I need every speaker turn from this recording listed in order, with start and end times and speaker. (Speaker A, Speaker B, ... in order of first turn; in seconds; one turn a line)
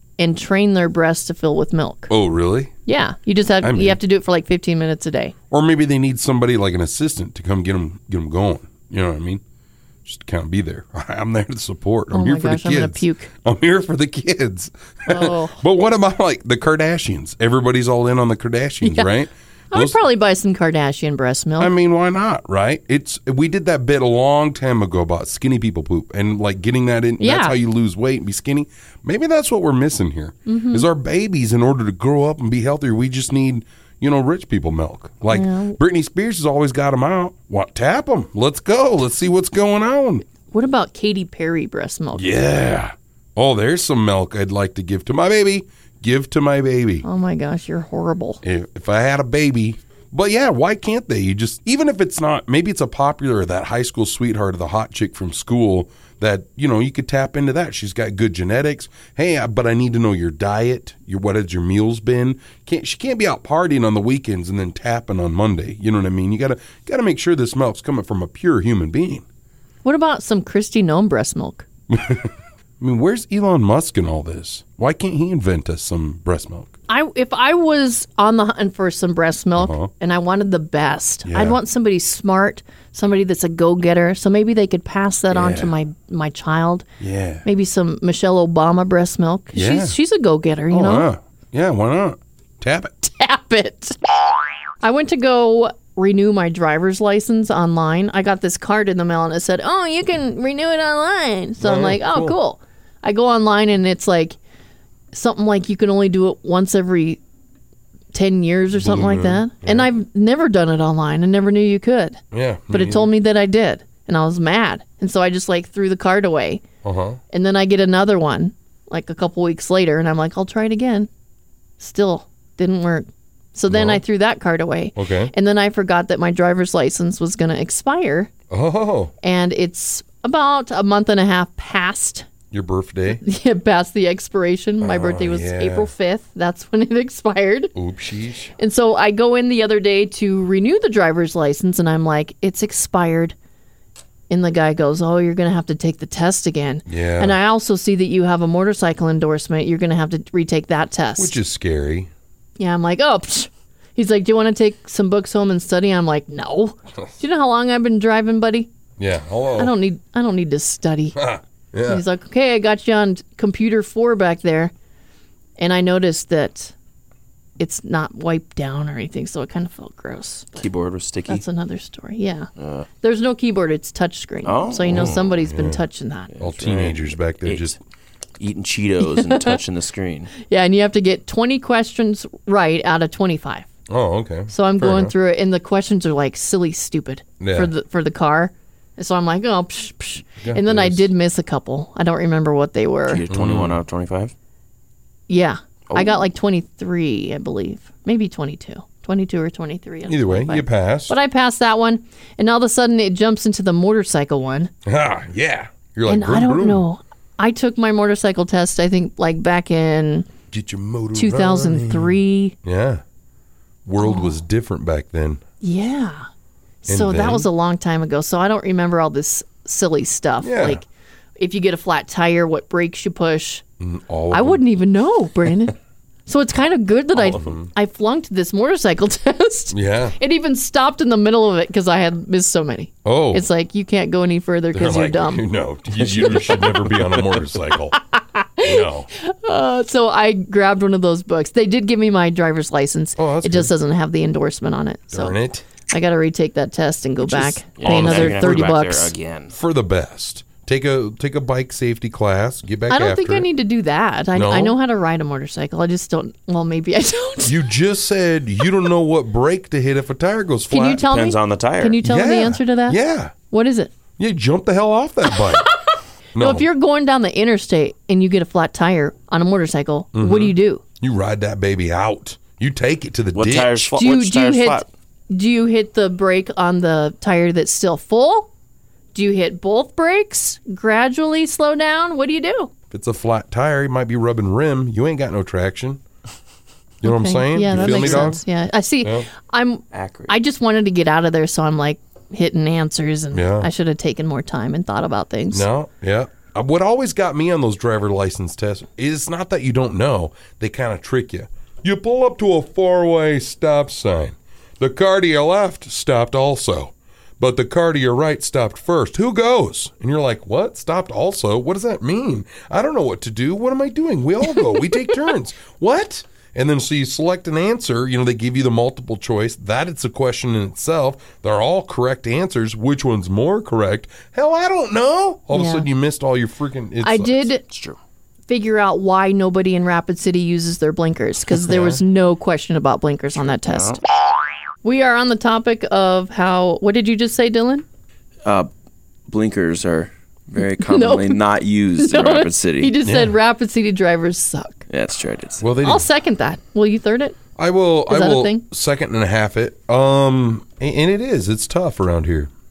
Speaker A: 0.2-2.1
Speaker B: 2.1-2.7
Speaker A: 2.9-5.3
Speaker B: 3.6-4.0
Speaker B: 5.5-9.4
Speaker B: 10.0-20.0
Speaker A: 12.1-13.3
Speaker A: 15.1-15.6
Speaker A: 18.8-19.1
Speaker A: 19.7-21.7
Speaker B: 21.6-40.2
Speaker A: 27.2-27.6
Speaker A: 30.4-30.9
Speaker A: 35.3-35.8
Speaker A: 40.5-42.4
Speaker B: 42.1-47.0
Speaker A: 47.0-48.4
Speaker B: 48.4-69.2
Speaker A: 69.8-71.7
Speaker B: 71.9-76.7
Speaker A: 76.9-86.8
Speaker B: 79.5-79.9
Speaker B: 81.2-81.6
Speaker B: 85.3-85.7
Speaker B: 87.0-87.4
Speaker A: 87.4-91.1
Speaker B: 89.5-90.0
Speaker B: 90.7-93.1
Speaker A: 93.0-94.0
Speaker A: 94.8-104.4
Speaker B: 101.6-102.4
Speaker A: 105.1-107.2
Speaker A: 108.1-116.6
Speaker B: 108.7-109.9
Speaker B: 112.3-113.1
Speaker B: 116.8-117.2
Speaker A: 117.3-121.1
Speaker A: 121.8-128.3
Speaker B: 123.7-124.0
Speaker B: 125.0-125.3
Speaker B: 128.5-129.1
Speaker A: 129.2-132.3
Speaker B: 132.5-133.2
Speaker A: 133.2-137.7
Speaker B: 134.8-135.9
Speaker B: 137.7-138.5
Speaker A: 138.6-143.3
Speaker A: 144.3-151.3
Speaker B: 146.9-147.4
Speaker B: 151.2-152.1
Speaker A: 152.6-158.7
Speaker B: 159.0-159.7
Speaker A: 159.6-161.2
Speaker B: 161.2-162.0
Speaker A: 161.8-164.7
Speaker A: 165.6-166.7
Speaker A: 167.6-170.7
Speaker C: 170.6-171.4
Speaker A: 171.3-172.5
Speaker C: 172.6-172.9
Speaker A: 173.0-176.3
Speaker C: 174.4-175.2
Speaker B: 174.9-175.8
Speaker C: 176.3-177.8
Speaker B: 176.4-177.8
Speaker C: 178.4-180.3
Speaker A: 179.1-179.5
Speaker A: 180.4-183.7
Speaker B: 183.9-185.1
Speaker A: 184.5-193.2
Speaker B: 187.4-187.7
Speaker B: 190.4-191.1
Speaker C: 193.1-194.3
Speaker B: 193.3-193.8
Speaker A: 195.3-204.7
Speaker C: 195.9-196.2
Speaker B: 200.1-201.1
Speaker B: 204.8-206.8
Speaker A: 206.1-210.3
Speaker B: 210.5-213.0
Speaker A: 211.2-212.5
Speaker B: 213.8-215.4
Speaker A: 214.0-214.4
Speaker A: 215.6-216.2
Speaker A: 216.8-220.8
Speaker B: 216.9-217.5
Speaker B: 220.4-220.8
Speaker A: 221.4-223.6
Speaker B: 223.8-224.7
Speaker A: 224.3-225.7
Speaker A: 226.3-235.4
Speaker B: 227.1-227.7
Speaker B: 229.7-230.2
Speaker B: 233.0-233.4
Speaker B: 234.7-238.0
Speaker C: 236.1-236.7
Speaker A: 236.2-236.7
Speaker A: 237.9-245.3
Speaker B: 238.6-239.1
Speaker B: 243.2-243.7
Speaker B: 245.1-245.6
Speaker A: 245.9-249.1
Speaker B: 247.3-248.8
Speaker C: 247.8-249.5
Speaker B: 249.5-253.5
Speaker A: 252.9-257.6
Speaker B: 254.3-254.8
Speaker B: 257.4-261.0
Speaker A: 260.7-263.9
Speaker C: 261.0-262.0
Speaker B: 262.0-263.3
Speaker B: 264.2-265.7
Speaker B: 266.3-266.6
Speaker A: 266.4-270.8
Speaker B: 270.1-273.9
Speaker C: 273.3-274.9
Speaker A: 273.9-278.5
Speaker A: 279.1-282.7
Speaker B: 282.9-286.0
Speaker B: 287.0-288.4
Speaker A: 287.0-295.7
Speaker C: 287.7-288.3
Speaker B: 289.0-289.3
Speaker C: 289.9-290.3
Speaker B: 293.3-293.7
Speaker B: 295.5-327.5
Speaker A: 325.5-325.9
Speaker A: 327.0-327.6
Speaker C: 327.7-328.0
Speaker A: 328.5-334.0
Speaker B: 331.6-332.0
Speaker C: 333.4-334.0
Speaker A: 334.8-337.8
Speaker C: 339.3-342.9
Speaker A: 340.6-341.4
Speaker A: 342.0-344.8
Speaker B: 343.0-343.3
Speaker C: 344.9-345.6
Speaker B: 345.6-346.1
Speaker A: 345.8-347.4
Speaker B: 347.6-352.5
Speaker A: 348.1-348.6